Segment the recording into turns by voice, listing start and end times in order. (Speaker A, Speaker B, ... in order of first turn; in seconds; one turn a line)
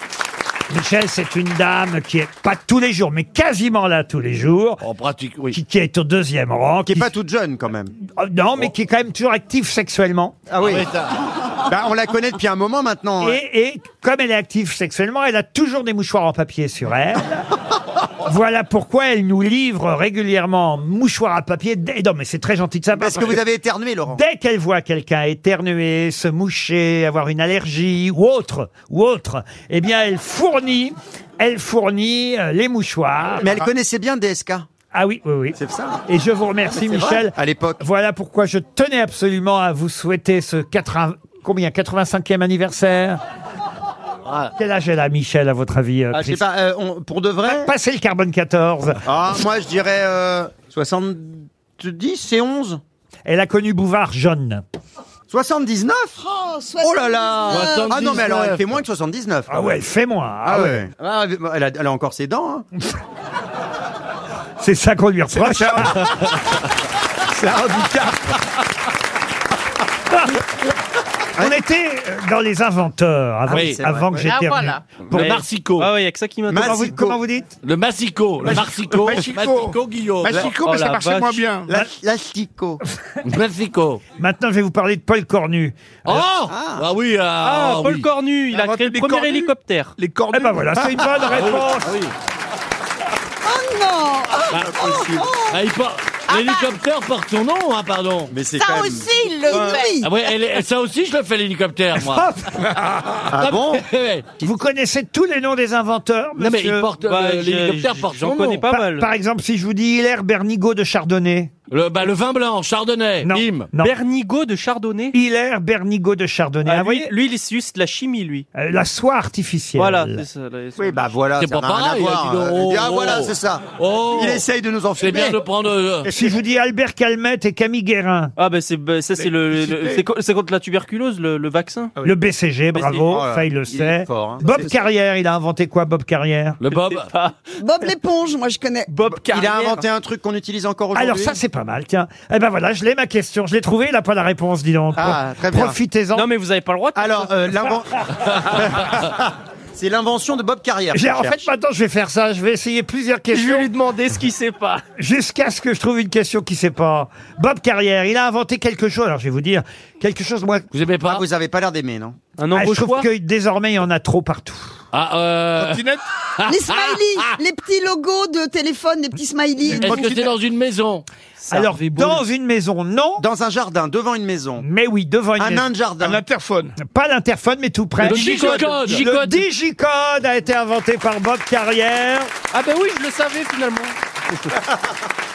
Speaker A: 0.7-4.8
Speaker B: 4.8-5.6
Speaker A: 5.5-7.1
Speaker C: 6.8-7.9
Speaker A: 8.1-10.4
Speaker C: 10.5-10.9
Speaker B: 10.6-11.2
Speaker C: 11.6-13.4
Speaker A: 13.2-17.4
Speaker A: 18.2-23.4
Speaker C: 22.9-24.2
Speaker A: 24.1-33.5
Speaker C: 33.4-34.7
Speaker A: 34.9-43.2
Speaker C: 35.5-36.0
Speaker C: 36.7-37.8
Speaker A: 44.6-46.4
Speaker C: 46.1-47.7
Speaker A: 47.5-49.0
Speaker C: 49.0-52.8
Speaker A: 53.2-54.6
Speaker C: 55.3-56.2
Speaker D: 56.2-58.1
Speaker C: 56.8-59.7
Speaker B: 57.5-58.6
Speaker A: 59.5-60.8
Speaker C: 60.4-62.6
Speaker A: 64.6-66.1
Speaker E: 65.5-66.0
Speaker E: 67.3-67.9
Speaker C: 67.4-68.2
Speaker A: 70.1-70.4
Speaker A: 71.4-74.8
Speaker B: 73.5-73.9
Speaker C: 73.5-74.3
Speaker F: 74.2-74.9
Speaker B: 75.1-75.9
Speaker G: 75.1-76.9
Speaker C: 76.5-77.2
Speaker A: 76.6-77.5
Speaker B: 77.6-80.5
Speaker E: 78.5-81.8
Speaker G: 80.6-81.5
Speaker C: 81.7-82.8
Speaker B: 83.2-84.0
Speaker A: 84.2-86.2
Speaker B: 86.0-88.0
Speaker C: 86.5-86.8
Speaker G: 87.4-89.9
Speaker E: 88.5-91.1
Speaker A: 90.3-91.9
Speaker B: 91.2-92.1
Speaker D: 93.4-95.6
Speaker C: 94.5-95.3
Speaker B: 95.5-98.3
Speaker F: 96.3-96.7
Speaker C: 98.3-99.1
Speaker F: 98.5-100.0
Speaker D: 99.5-100.1
Speaker B: 100.0-102.3
Speaker A: 102.0-102.5
Speaker C: 103.3-103.9
Speaker B: 103.4-104.3
Speaker A: 104.4-106.9
Speaker B: 106.4-108.7
Speaker G: 107.0-109.1
Speaker A: 108.7-111.5
Speaker B: 111.7-113.7
Speaker A: 113.2-113.9
Speaker G: 113.8-115.2
Speaker A: 115.1-117.1
Speaker G: 116.6-118.5
Speaker A: 118.5-120.2
Speaker G: 119.7-121.2
Speaker C: 120.8-125.4
Speaker B: 121.4-124.5
Speaker B: 125.0-126.1
Speaker C: 126.0-126.3
Speaker A: 126.1-128.3
Speaker G: 128.3-131.9
Speaker E: 129.2-130.0
Speaker A: 132.0-136.6
Speaker G: 132.7-133.2
Speaker C: 133.1-134.7
Speaker B: 136.6-137.1
Speaker G: 136.7-137.4
Speaker D: 137.6-138.9
Speaker G: 138.9-139.8
Speaker C: 139.2-141.4
Speaker A: 140.9-146.3
Speaker C: 144.9-145.8
Speaker G: 146.1-147.7
Speaker C: 146.9-151.5
Speaker A: 150.9-153.7
Speaker G: 153.3-154.8
Speaker A: 155.0-160.7
Speaker B: 160.7-161.2
Speaker C: 161.0-162.2
Speaker G: 162.4-163.1
Speaker A: 162.5-164.8
Speaker B: 164.9-167.3
Speaker E: 165.6-166.0
Speaker D: 166.4-169.9
Speaker A: 169.7-170.0
Speaker B: 169.8-171.0
Speaker G: 171.4-172.2
Speaker A: 171.5-173.2
Speaker C: 173.2-174.6
Speaker A: 174.6-175.7
Speaker C: 175.4-176.2
Speaker E: 176.0-176.8
Speaker A: 176.8-182.3
Speaker G: 178.0-179.2
Speaker B: 178.0-179.3
Speaker E: 178.4-178.9
Speaker G: 182.5-184.6